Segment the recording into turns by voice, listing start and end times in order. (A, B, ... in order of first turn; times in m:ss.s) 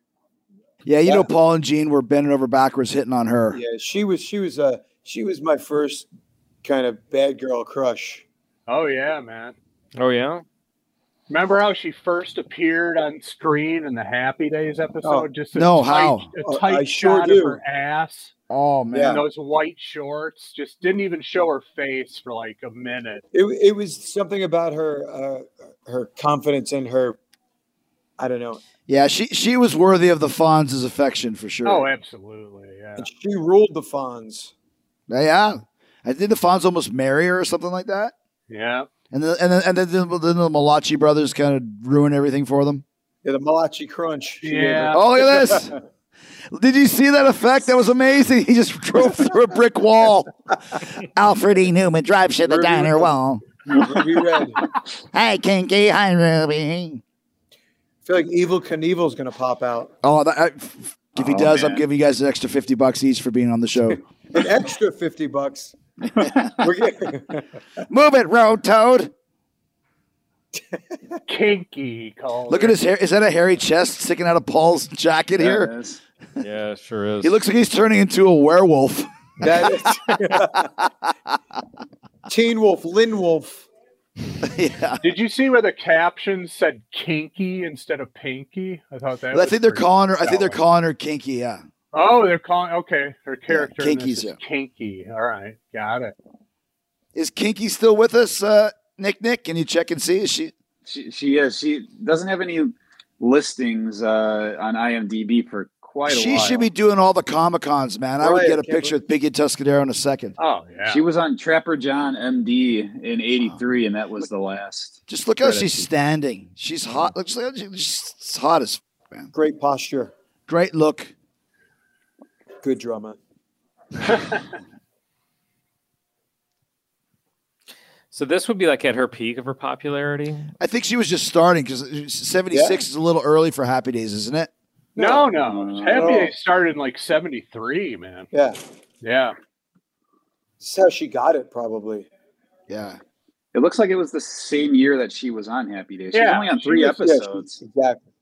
0:00.8-0:03.6 A
0:03.5-0:06.1 B
0:06.6-0:08.2 B
0:08.7-0:09.6 C
0:10.0-0:10.4 D
0:11.3-0:18.3 C
0:15.0-0:15.3 B
0:15.5-0:16.3 A
0:16.4-0:17.6 B
0:18.5-0:19.2 A
0:18.9-0:19.2 B
0:19.0-0:23.2 C
0:23.3-0:27.2 B
0:28.2-0:28.6 B
0:28.9-0:31.9 A
0:31.6-0:33.1 C
0:33.0-0:34.5 B
0:35.1-0:38.1 A
0:38.5-0:38.9 C
0:39.1-0:42.8 A
0:43.2-0:45.8 B
0:44.4-0:45.0 C
0:44.9-0:45.7 A
0:46.5-0:53.4 A
0:52.4-0:53.1 B
0:53.7-0:54.6 B
0:55.1-0:57.0 A
0:58.0-0:59.9 B
1:00.0-1:04.0 A
1:01.2-1:01.8 E
1:04.3-1:05.7 B
1:06.1-1:06.6 E
1:06.6-1:07.5 B
1:07.9-1:09.1 A
1:11.3-1:12.8 C
1:12.5-1:15.7 A
1:15.4-1:16.0 E
1:16.4-1:17.4 D
1:17.2-1:19.6 A
1:19.4-1:20.7 B
1:22.3-1:23.7 B
1:24.4-1:25.1 A
1:25.0-1:30.6 C
1:29.3-1:31.6 A
1:31.9-1:36.1 C
1:33.5-1:34.4 A
1:37.1-1:40.5 A
1:40.8-1:46.7 E
1:46.0-1:50.3 A
1:48.2-1:49.0 B
1:50.4-1:51.0 C
1:50.9-1:55.7 E
1:55.1-1:59.3 A
1:59.3-2:00.1 B
2:00.5-2:01.1 A
2:02.6-2:03.2 B
2:08.1-2:10.5 D
2:10.6-2:14.5 A
2:12.5-2:12.8 B
2:14.9-2:15.4 B
2:15.0-2:18.3 C
2:15.4-2:16.2 E
2:15.9-2:16.3 B
2:18.3-2:18.6 B
2:19.0-2:19.4 C
2:20.6-2:22.1 B
2:22.7-2:23.0 A
2:23.5-2:27.6 E
2:26.1-2:26.8 C
2:26.7-2:28.0 B